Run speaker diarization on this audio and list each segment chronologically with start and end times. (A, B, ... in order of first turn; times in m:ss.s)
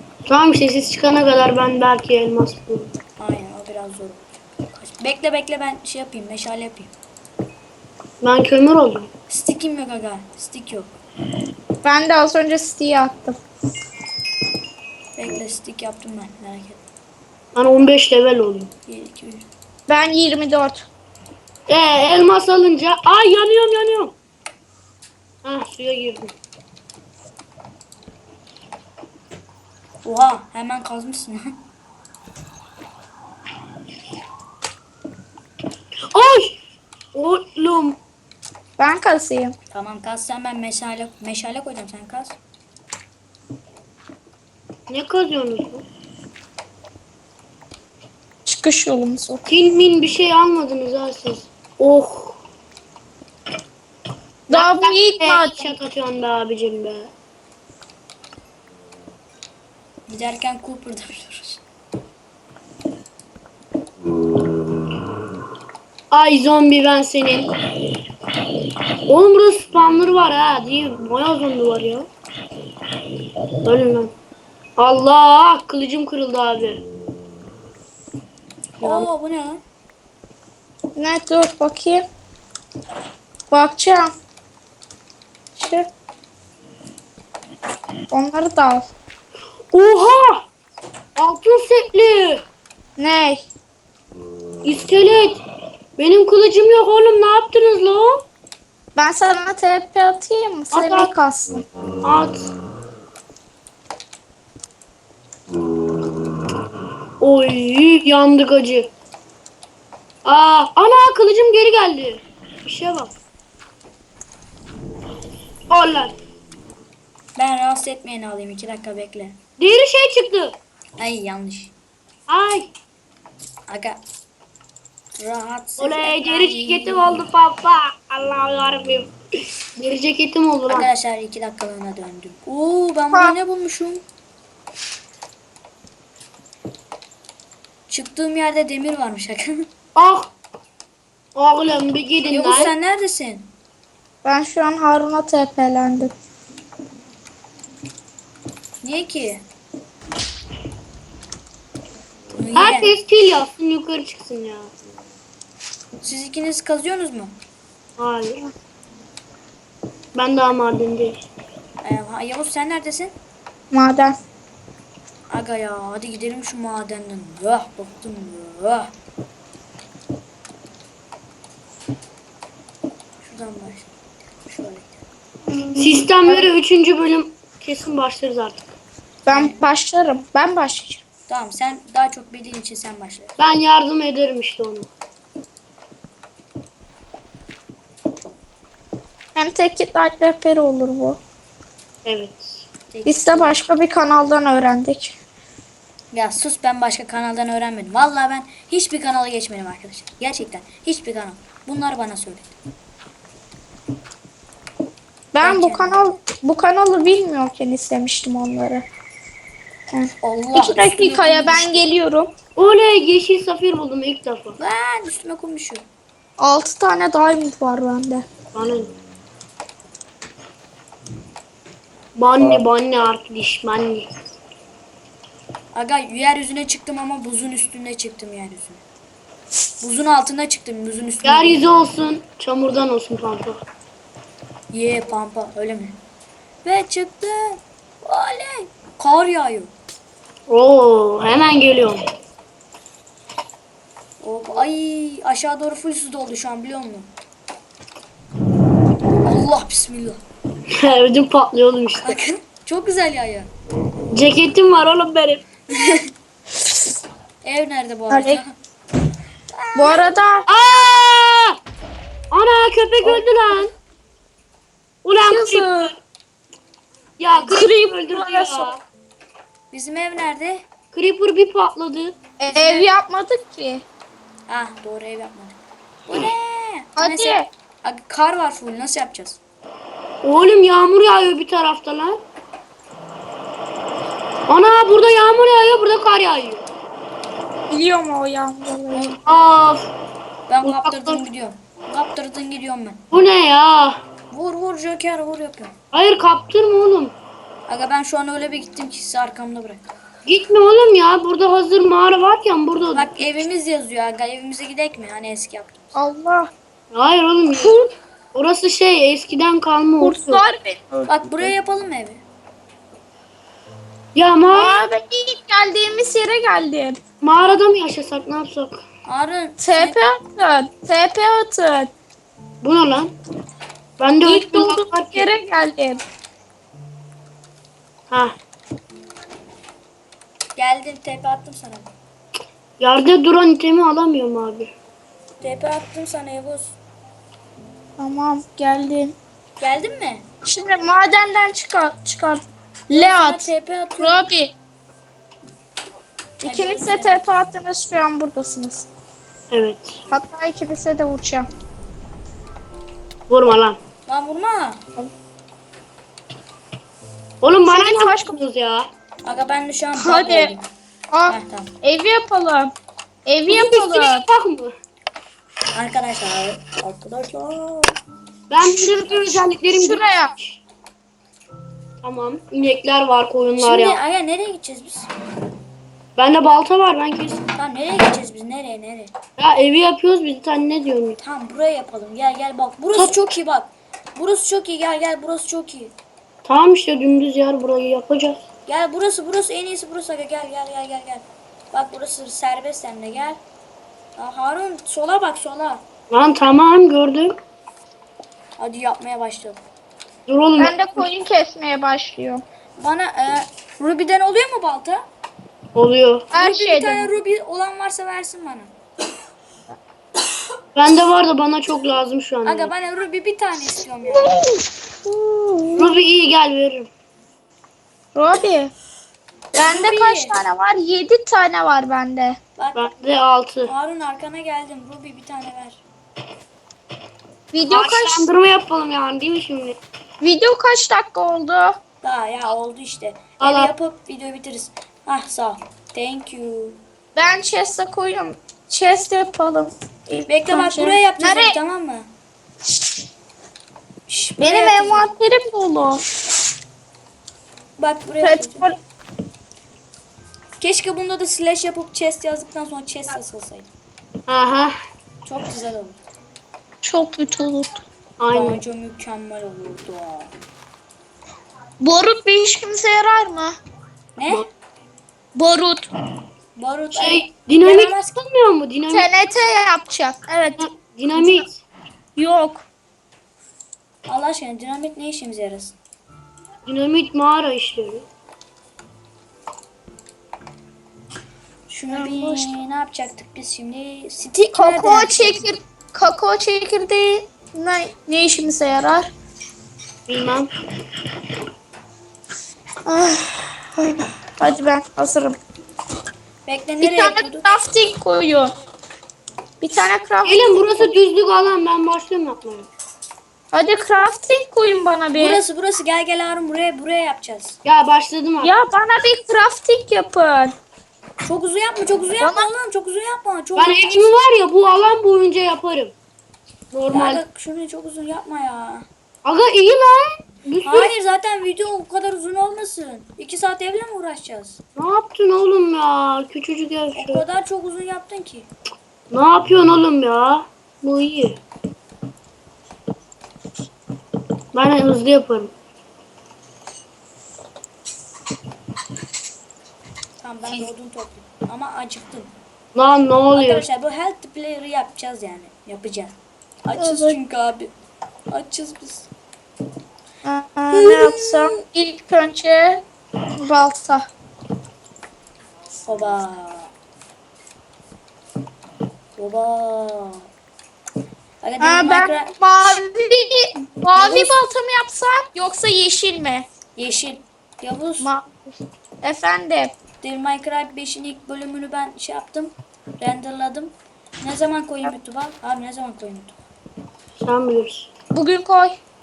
0:00.3-0:02.9 A
0:03.2-0:06.9 B
0:08.2-0:09.1 A
0:09.3-0:10.9 B
0:11.8-0:13.4 C
0:15.2-0:16.8 B
0:17.6-0:18.7 A
0:18.9-0:19.5 B
0:19.9-0:20.9 C
0:21.7-0:24.1 A
0:25.4-0:26.3 A
0:30.0-0:31.6 B
0:36.1-0:36.6 A
0:37.1-0:38.0 A
0:38.8-0:39.6 C
0:39.7-0:42.4 B
0:44.9-0:45.8 A
0:48.5-0:49.4 C
0:49.5-0:52.4 A
0:54.5-0:55.7 C
0:54.5-0:57.1 A
1:00.1-1:01.6 B
1:06.1-1:07.5 A
1:09.1-1:12.1 A
1:13.6-1:14.1 A
1:14.8-1:16.8 A
1:18.8-1:19.1 A
1:18.8-1:19.6 B
1:21.0-1:22.0 C
1:23.5-1:24.1 C
1:25.6-1:25.9 C
1:28.1-1:28.9 C
1:29.7-1:30.4 A
1:31.2-1:32.4 A
1:33.0-1:33.5 C
1:34.6-1:35.4 A
1:36.0-1:38.2 A
1:39.0-1:41.6 C
1:40.7-1:41.1 A
1:42.0-1:42.5 A
1:47.2-1:48.9 A
1:50.2-1:53.1 A
1:55.7-1:56.1 A
1:57.4-1:59.4 B
1:59.6-2:00.6 A
2:01.0-2:01.7 B
2:02.3-2:02.7 A
2:03.7-2:04.0 B
2:05.2-2:07.2 B
2:05.8-2:09.1 A
2:09.8-2:10.9 A
2:10.7-2:14.0 B
2:17.9-2:19.7 B
2:20.0-2:20.3 A
2:21.4-2:22.7 A
2:22.3-2:23.5 B
2:24.2-2:26.1 C
2:28.8-2:29.4 B
2:32.4-2:32.9 B
2:32.6-2:34.7 A
2:36.0-2:37.4 B
2:38.0-2:38.5 A
2:40.2-2:41.2 A
2:41.8-2:43.2 B
2:43.7-2:44.2 C
2:45.3-2:48.9 B
2:53.2-2:55.0 B
2:55.5-2:56.5 C
2:55.8-2:58.6 A
2:59.2-3:01.0 C
2:59.3-2:59.6 B
3:01.3-3:03.3 B
3:03.4-3:04.9 A
3:09.4-3:11.2 C
3:12.0-3:12.6 A
3:12.9-3:13.6 B
3:13.0-3:15.2 C
3:16.1-3:22.6 B
3:25.3-3:28.9 C
3:25.4-3:26.0 B
3:29.9-3:32.3 C
3:30.2-3:31.9 B
3:32.6-3:34.6 A
3:34.6-3:35.8 B
3:36.4-3:38.3 C
3:38.6-3:38.9 A
3:42.2-3:44.1 A
3:45.7-3:48.8 B
3:49.8-3:51.7 B
3:51.2-3:53.6 A
3:54.7-3:56.0 B
3:56.6-3:59.7 B
4:00.5-4:02.0 A
4:04.2-4:07.1 B
4:09.2-4:10.2 B
4:10.7-4:12.2 A
4:12.0-4:13.5 B
4:14.1-4:15.4 A
4:15.7-4:16.0 B
4:17.4-4:18.5 B
4:18.1-4:18.4 C
4:19.6-4:20.1 B
4:19.8-4:20.5 C
4:20.5-4:21.6 A
4:22.3-4:23.7 A
4:25.0-4:25.7 A
4:25.2-4:25.9 C
4:27.2-4:28.8 A
4:27.4-4:28.7 C
4:29.7-4:30.6 B
4:30.9-4:32.2 A
4:32.4-4:33.8 C
4:32.5-4:32.9 B
4:34.5-4:39.4 B
4:37.0-4:37.5 C
4:40.2-4:42.2 A
4:44.5-4:46.6 A
4:47.7-4:49.2 C
4:49.3-4:49.9 A
4:50.5-4:53.0 B
4:50.6-4:51.2 A
4:53.1-4:54.0 A
4:54.3-4:55.8 B
4:55.9-4:57.2 A
4:57.7-4:59.9 B
5:00.2-5:03.1 A
5:03.0-5:06.0 B
5:06.0-5:06.5 C
5:06.9-5:10.4 A
5:10.0-5:11.5 C
5:11.1-5:12.2 B
5:14.2-5:14.8 A
5:14.5-5:17.0 C
5:17.2-5:18.8 A
5:19.1-5:20.0 B
5:19.6-5:21.9 C
5:22.6-5:23.1 A
5:24.0-5:25.3 A
5:24.2-5:26.0 C
5:28.1-5:28.4 A
5:30.6-5:31.9 B
5:32.8-5:34.8 A
5:35.4-5:36.8 B
5:38.0-5:39.2 C
5:39.6-5:40.3 B
5:40.4-5:43.5 C
5:42.9-5:44.2 B
5:44.0-5:44.5 C
5:46.4-5:48.9 C
5:46.4-5:47.2 B
5:49.5-5:50.0 A
5:50.1-5:51.5 C
5:53.3-5:53.8 A
5:54.1-5:54.8 B
5:57.4-5:58.9 A
5:57.7-5:58.4 C
5:59.2-6:00.7 B
6:00.0-6:00.5 C
6:01.1-6:02.7 C
6:01.3-6:01.7 B
6:03.3-6:04.2 C
6:03.5-6:04.7 A
6:05.7-6:08.0 B
6:08.5-6:10.6 A
6:08.7-6:10.3 C
6:12.0-6:14.0 A
6:13.6-6:15.1 B
6:16.2-6:17.5 A
6:17.6-6:19.1 B
6:19.4-6:21.2 A
6:21.2-6:25.9 B
6:26.4-6:28.4 A
6:28.7-6:33.4 B
6:34.2-6:35.8 B
6:36.1-6:37.3 A
6:38.6-6:39.6 B
6:40.3-6:41.1 A
6:40.6-6:42.4 C
6:42.8-6:45.1 B
6:45.8-6:46.3 A
6:46.3-6:48.7 B
6:46.3-6:47.2 C
6:50.8-6:52.7 A
6:52.4-6:54.4 B
6:54.1-6:56.0 C
6:55.8-6:56.9 A
6:58.2-6:58.7 C
6:59.6-7:02.4 C
6:59.6-7:00.4 B
7:02.6-7:02.9 B
7:02.8-7:03.7 A
7:03.7-7:05.8 B
7:07.5-7:08.3 C
7:07.7-7:09.8 A
7:10.2-7:11.8 C
7:12.0-7:16.8 B
7:13.4-7:13.7 A
7:17.2-7:21.6 C
7:20.3-7:22.1 B
7:24.1-7:25.1 B
7:24.4-7:26.1 C
7:27.8-7:28.7 B
7:28.2-7:28.8 C
7:30.6-7:33.7 B
7:34.3-7:34.7 A
7:35.2-7:36.0 B
7:36.8-7:37.8 C
7:38.2-7:38.6 A
7:38.3-7:40.3 B
7:41.8-7:43.6 C
7:44.2-7:44.5 B
7:45.4-7:45.9 C
7:46.6-7:48.2 B
7:46.9-7:49.1 A
7:48.9-7:50.6 C
7:50.6-7:51.6 A
7:51.2-7:51.4 C
7:52.2-7:52.6 C
7:54.1-7:55.8 B
7:56.7-7:58.0 A
8:01.7-8:05.4 B
8:01.9-8:02.5 C
8:04.4-8:09.1 C
8:10.1-8:10.5 A
8:12.8-8:15.4 C
8:16.5-8:17.5 B
8:16.8-8:18.5 C
8:19.6-8:20.9 C
8:20.2-8:22.7 A
8:23.5-8:25.4 C
8:25.2-8:27.6 B
8:27.6-8:28.5 A
8:28.4-8:30.6 C
8:31.2-8:34.1 B
8:32.2-8:32.5 C
8:33.6-8:36.0 A
8:36.7-8:37.2 A
8:36.9-8:38.9 B
8:39.2-8:40.9 A
8:40.6-8:44.6 B
8:44.8-8:47.2 A
8:47.0-8:48.5 B
8:49.1-8:51.4 A
8:54.5-8:55.5 A
9:00.2-9:02.3 B
9:02.8-9:03.6 A
9:03.3-9:07.7 B
9:06.8-9:07.2 C
9:08.3-9:09.1 B
9:10.2-9:12.8 C
9:10.7-9:11.5 B
9:13.4-9:14.1 C
9:15.9-9:16.7 B
9:19.2-9:20.3 B
9:21.4-9:22.3 B
9:21.6-9:26.5 C
9:24.0-9:24.3 B
9:26.8-9:28.1 B
9:28.0-9:29.7 C
9:30.0-9:36.4 B
9:37.2-9:37.9 A
9:38.1-9:38.8 C